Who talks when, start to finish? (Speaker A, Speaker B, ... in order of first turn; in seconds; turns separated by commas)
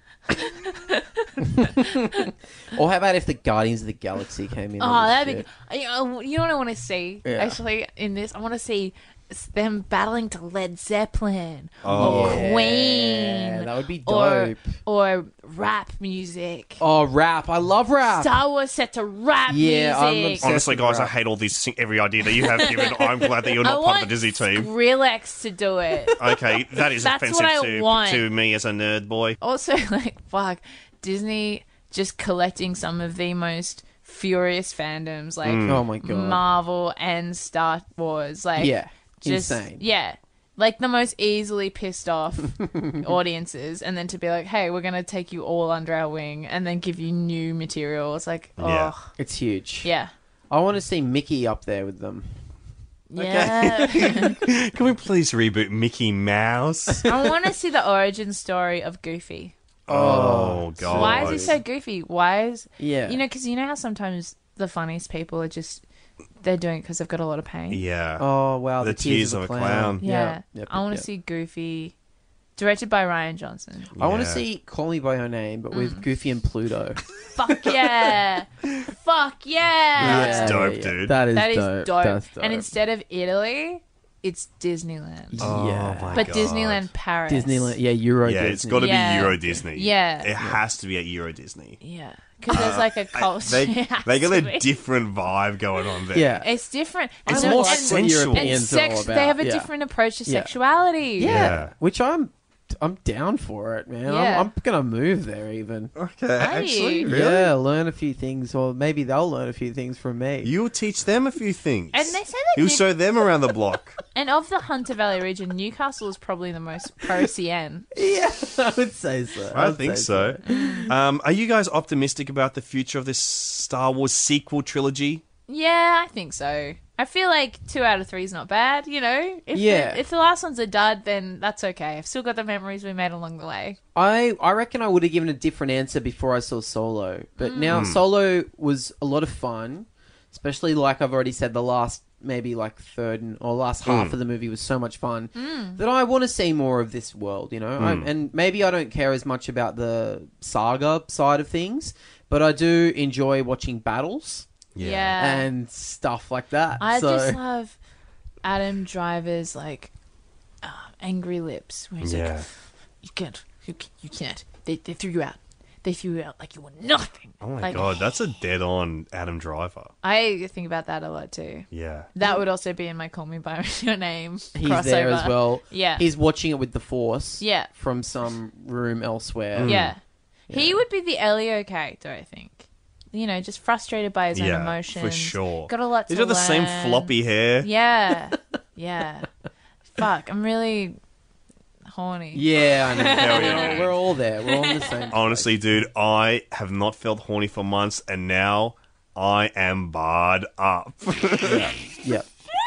Speaker A: 0.3-2.3, Speaker B: 1.4-5.5, Speaker A: 4.8-16.8, Speaker B: 7.2-7.6, Speaker C: 11.8-12.5, Speaker B: 11.9-14.6, Speaker B: 16.8-18.3, Speaker A: 18.1-20.5, Speaker B: 19.5-21.1, Speaker C: 20.4-24.7, Speaker A: 22.4-26.3, Speaker C: 26.1-29.4, Speaker A: 26.8-28.2, Speaker A: 29.4-49.1, Speaker C: 35.4-35.8, Speaker B: 35.6-36.4, Speaker B: 38.6-39.8, Speaker B: 42.6-43.1, Speaker C: 48.6-48.9, Speaker B: 49.2-49.9, Speaker A: 49.8-50.1, Speaker B: 50.5-52.3, Speaker A: 53.1-54.4, Speaker C: 53.2-57.1, Speaker A: 57.0-59.5, Speaker C: 59.9-61.5, Speaker B: 59.9-61.6, Speaker A: 60.9-65.8, Speaker B: 62.8-63.2, Speaker A: 66.4-67.8, Speaker C: 67.7-68.3, Speaker B: 68.2-71.0, Speaker C: 68.8-70.0, Speaker A: 70.0-71.9, Speaker A: 72.6-73.9, Speaker C: 74.0-74.4, Speaker B: 74.0-77.0, Speaker A: 75.7-76.0, Speaker A: 77.3-80.7, Speaker C: 80.0-81.2, Speaker B: 80.0-82.7, Speaker A: 81.3-85.5, Speaker B: 85.3-86.3, Speaker C: 85.4-86.9, Speaker A: 86.1-87.8, Speaker B: 87.3-89.3, Speaker C: 88.2-91.8, Speaker A: 88.8-90.3, Speaker A: 91.8-94.6, Speaker C: 92.5-96.3, Speaker B: 96.1-96.5, Speaker A: 96.4-101.5, Speaker B: 97.2-99.7, Speaker C: 97.3-98.7, Speaker B: 100.2-100.5, Speaker B: 101.2-105.9, Speaker C: 101.2-101.7, Speaker A: 104.0-104.5, Speaker C: 105.9-107.5, Speaker A: 106.4-107.1, Speaker B: 107.1-110.5, Speaker C: 110.4-114.0, Speaker A: 111.9-112.9, Speaker A: 114.1-117.9, Speaker B: 117.9-120.9, Speaker C: 119.5-125.2, Speaker A: 120.5-120.9, Speaker A: 125.5-133.8, Speaker B: 129.5-130.0, Speaker B: 133.9-154.5, Speaker A: 137.4-137.8, Speaker C: 137.7-138.0, Speaker C: 143.8-144.1, Speaker A: 145.3-145.8, Speaker C: 147.8-148.1, Speaker C: 154.7-155.2, Speaker A: 154.8-155.5, Speaker B: 155.2-157.4, Speaker A: 156.8-157.8, Speaker A: 158.4-159.9, Speaker A: 160.6-162.5, Speaker C: 162.0-162.4, Speaker A: 163.0-168.1, Speaker C: 167.4-169.9, Speaker A: 170.0-176.0, Speaker C: 171.7-172.1, Speaker B: 174.5-179.8, Speaker A: 177.4-177.7, Speaker C: 179.5-179.9, Speaker A: 179.6-189.3, Speaker B: 180.5-180.8, Speaker C: 184.3-187.7, Speaker A: 189.9-191.0, Speaker A: 191.9-193.8, Speaker B: 192.3-195.5, Speaker C: 193.0-193.9, Speaker A: 194.5-194.9, Speaker C: 195.1-201.8, Speaker B: 201.4-202.3